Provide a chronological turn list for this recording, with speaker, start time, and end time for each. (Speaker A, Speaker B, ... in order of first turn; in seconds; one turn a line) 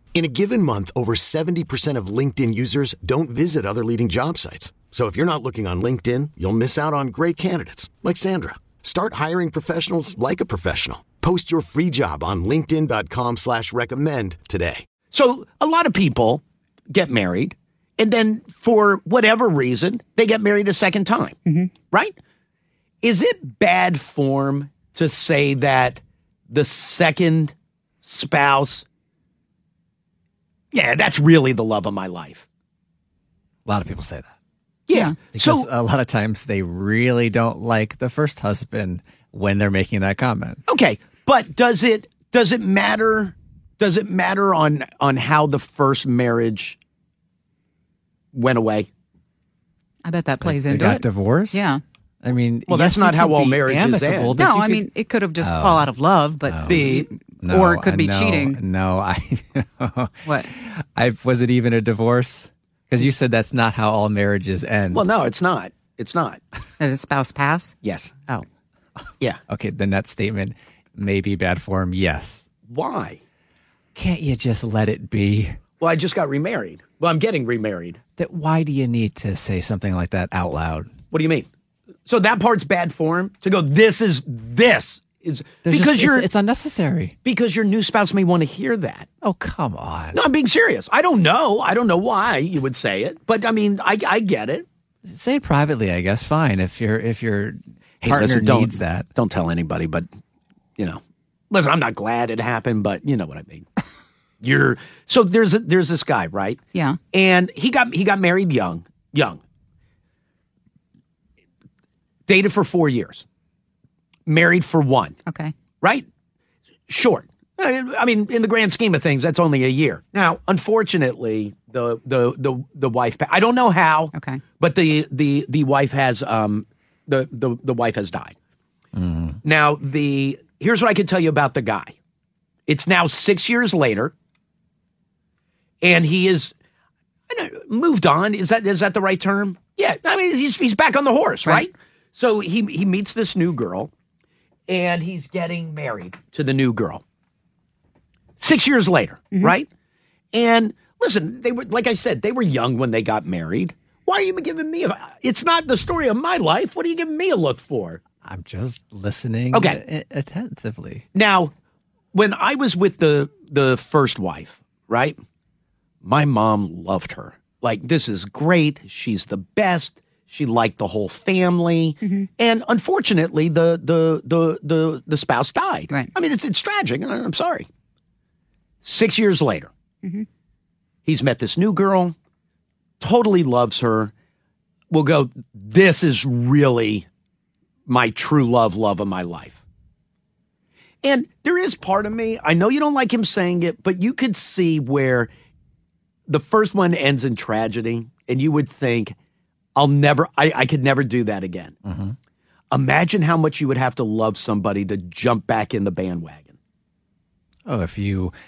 Speaker A: 0.1-14.8
Speaker B: 15.1-21.4
Speaker C: 21.4-21.7
Speaker B: 23.0-28.8
Speaker B: 30.7-32.4
Speaker D: 33.7-34.3
Speaker B: 34.9-35.7
Speaker D: 35.3-40.6
Speaker B: 40.7-46.8
Speaker B: 48.3-48.9
Speaker C: 50.0-51.8
Speaker D: 50.4-51.6
Speaker D: 52.2-54.9
Speaker B: 52.7-54.4
Speaker C: 54.4-58.6
Speaker D: 55.4-55.9
Speaker D: 56.5-65.0
Speaker B: 56.7-57.0
Speaker B: 64.9-66.4
Speaker C: 66.8-67.8
Speaker B: 67.8-68.1
Speaker D: 69.5-72.5
Speaker B: 72.7-73.2
Speaker D: 73.9-75.6
Speaker B: 75.8-78.0
Speaker D: 78.2-80.9
Speaker B: 81.1-81.5
Speaker B: 82.1-86.2
Speaker D: 85.7-87.2
Speaker B: 87.2-89.1
Speaker D: 89.2-90.2
Speaker B: 90.1-94.7
Speaker D: 95.1-99.1
Speaker B: 98.0-100.1
Speaker B: 100.8-103.7
Speaker B: 104.4-106.6
Speaker B: 107.1-109.4
Speaker B: 112.3-113.2
Speaker B: 114.2-115.2
Speaker C: 115.3-115.5
Speaker B: 116.9-128.3
Speaker C: 124.1-124.4
Speaker D: 128.9-129.4
Speaker B: 129.4-131.9
Speaker B: 132.7-134.1
Speaker B: 135.8-136.5
Speaker B: 137.3-143.9
Speaker B: 144.7-147.0
Speaker B: 148.4-149.7
Speaker B: 150.3-158.0
Speaker D: 158.2-161.0
Speaker B: 159.5-159.8
Speaker B: 161.1-161.5
Speaker B: 162.1-165.2
Speaker B: 166.0-177.7
Speaker C: 172.0-172.3
Speaker B: 178.8-179.7
Speaker B: 181.1-182.2
Speaker B: 183.0-184.1
Speaker B: 184.9-187.1
Speaker B: 187.9-189.6
Speaker B: 191.0-195.3
Speaker B: 196.3-199.2
Speaker B: 199.8-201.8
Speaker D: 201.8-202.2
Speaker B: 202.7-206.5
Speaker D: 207.7-208.3